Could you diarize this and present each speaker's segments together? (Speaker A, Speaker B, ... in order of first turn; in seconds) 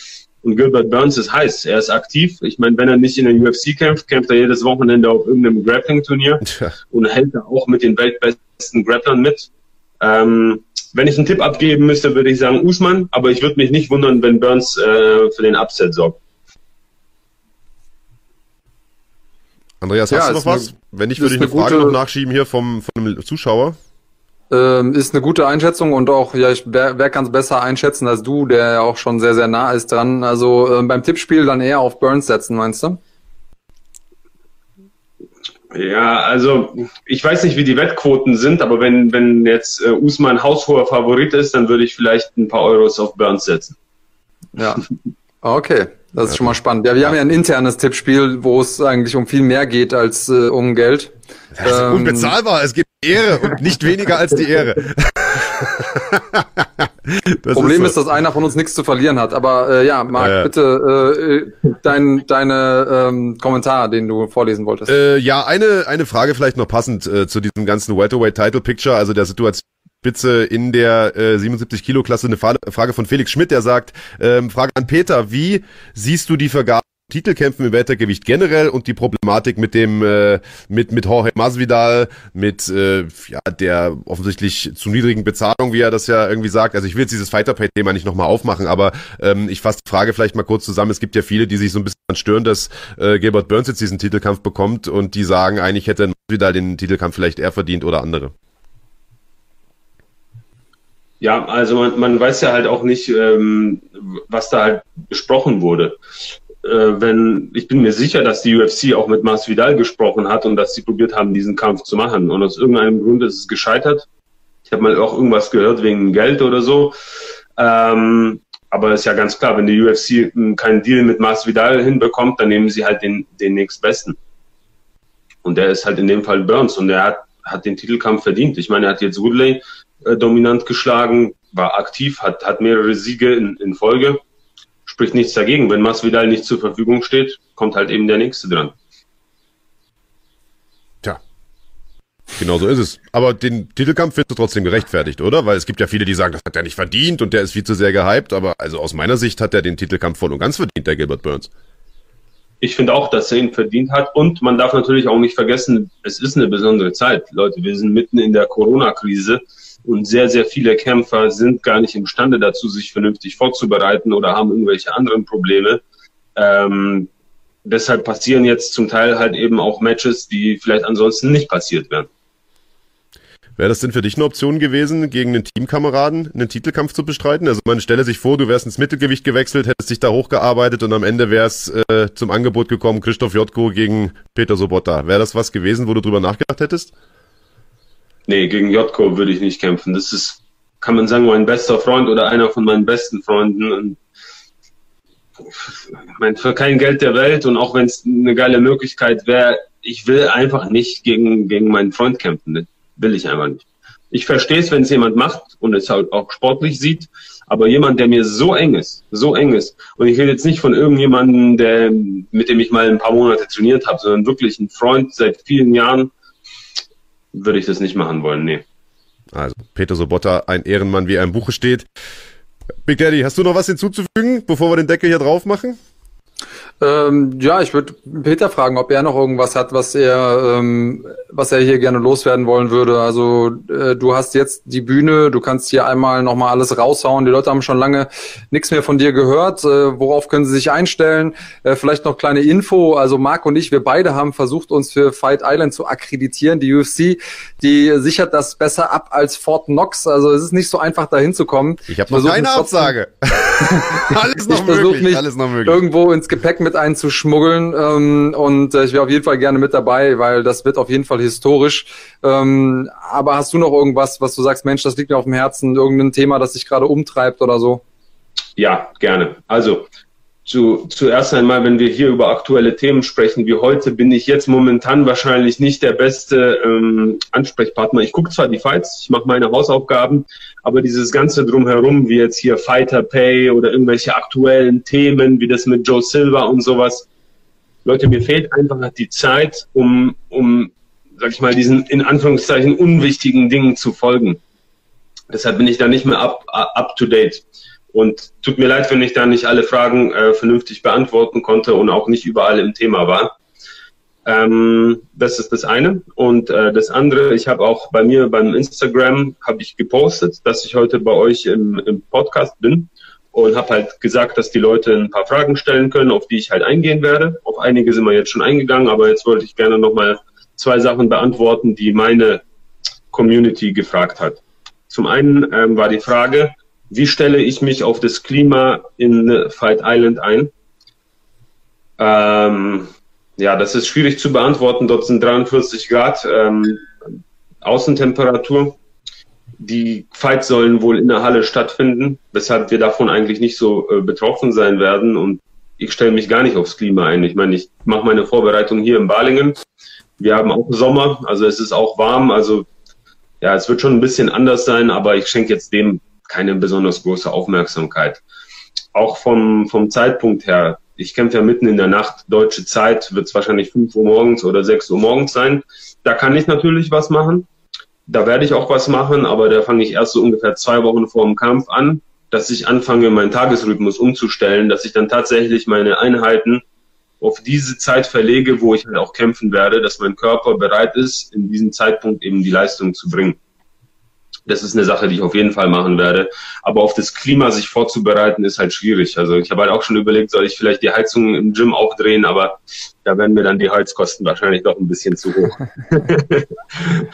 Speaker A: 0.4-16.2, 35.7-43.8, 101.2-106.0, 106.6-114.1, 114.7-117.0, 117.6-124.2, 125.4-134.2, 134.9-138.8, 152.6-165.8, 166.4-167.1, 167.6-172.1, 188.3-194.0, 195.5-216.1, 217.3-218.6, 268.6-269.9, 270.5-287.1, 287.9-294.4, 295.3-303.4, 304.2-322.4, 323.1-330.5, 332.0-336.9, 337.6-338.8, 339.6-349.6, 350.2-352.7, 353.4-358.2, 358.9-367.5, 368.1-376.6, 377.2-383.4, 384.5-397.0
Speaker B: 19.8-23.8, 51.6-58.0, 60.1-60.5, 64.9-98.3, 142.4-151.5, 173.6-186.9, 219.3-221.9, 222.9-225.8, 251.9-255.8
Speaker C: 20.1-22.0, 24.5-33.0, 44.6-44.8, 45.4-52.4, 57.5-65.0, 226.8-252.9, 254.1-267.8